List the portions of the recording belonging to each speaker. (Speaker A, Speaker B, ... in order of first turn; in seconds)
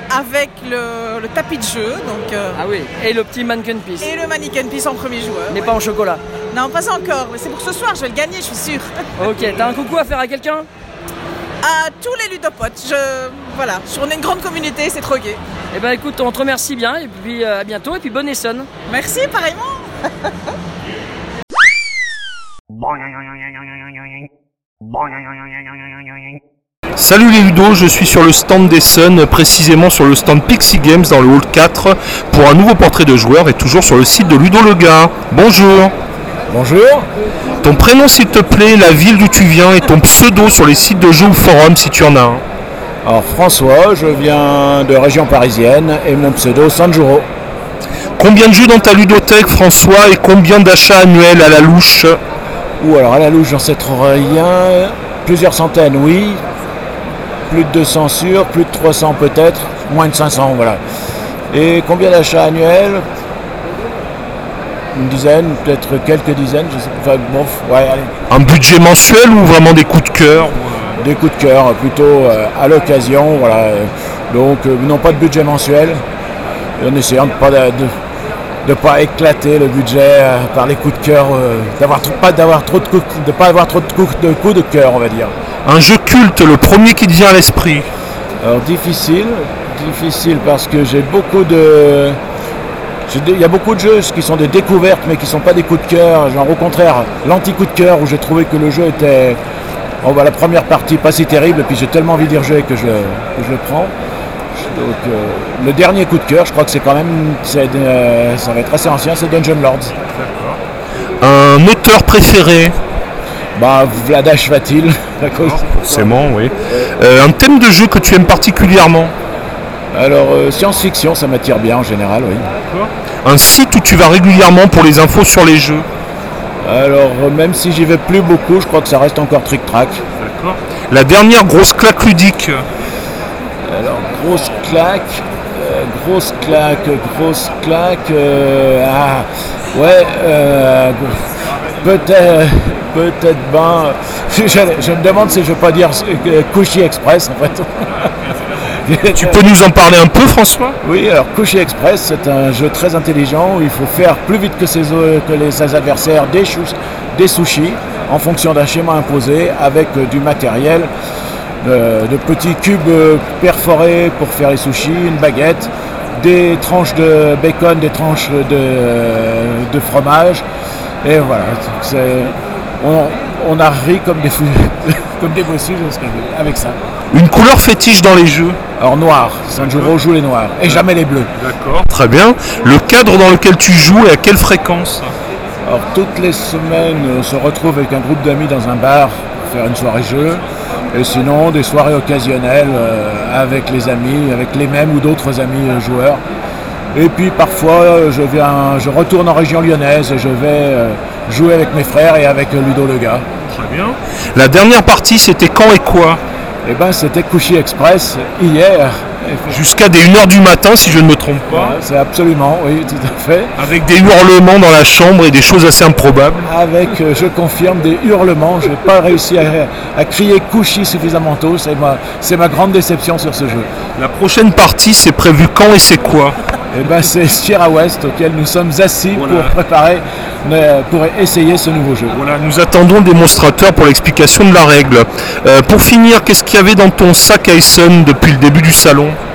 Speaker A: 0.1-2.6, 4.0-5.7, 6.5-8.9, 11.6-15.4, 18.9-19.9
Speaker B: 2.5-4.1, 5.5-6.2, 9.2-10.7, 15.7-18.7
Speaker C: 27.0-35.9, 37.6-42.4, 48.2-52.2, 68.3-71.0, 85.7-87.9, 110.1-110.6, 111.2-112.8, 115.4-119.1, 122.7-125.9, 130.2-132.6, 149.1-150.8, 177.1-178.6, 181.4-185.1, 203.5-206.2, 209.5-211.8, 213.6-216.4, 224.0-226.4, 229.2-229.5, 232.1-239.2
Speaker D: 36.5-37.1, 43.0-47.3, 52.8-56.4, 57.5-60.8, 61.5-63.0, 64.9-68.1, 71.0-76.0, 76.8-77.9, 78.6-85.3, 88.4-92.2, 93.1-99.4, 100.0-103.9, 104.5-110.0, 113.6-116.0, 119.9-122.5, 126.6-130.0, 133.7-141.2, 141.8-148.3, 148.8-149.4, 150.8-160.9, 161.6-170.4, 171.0-176.8, 178.8-181.3, 185.7-190.4, 190.9-196.2, 196.9-203.2, 206.7-209.6, 211.5-213.6, 216.4-223.7, 226.7-232.2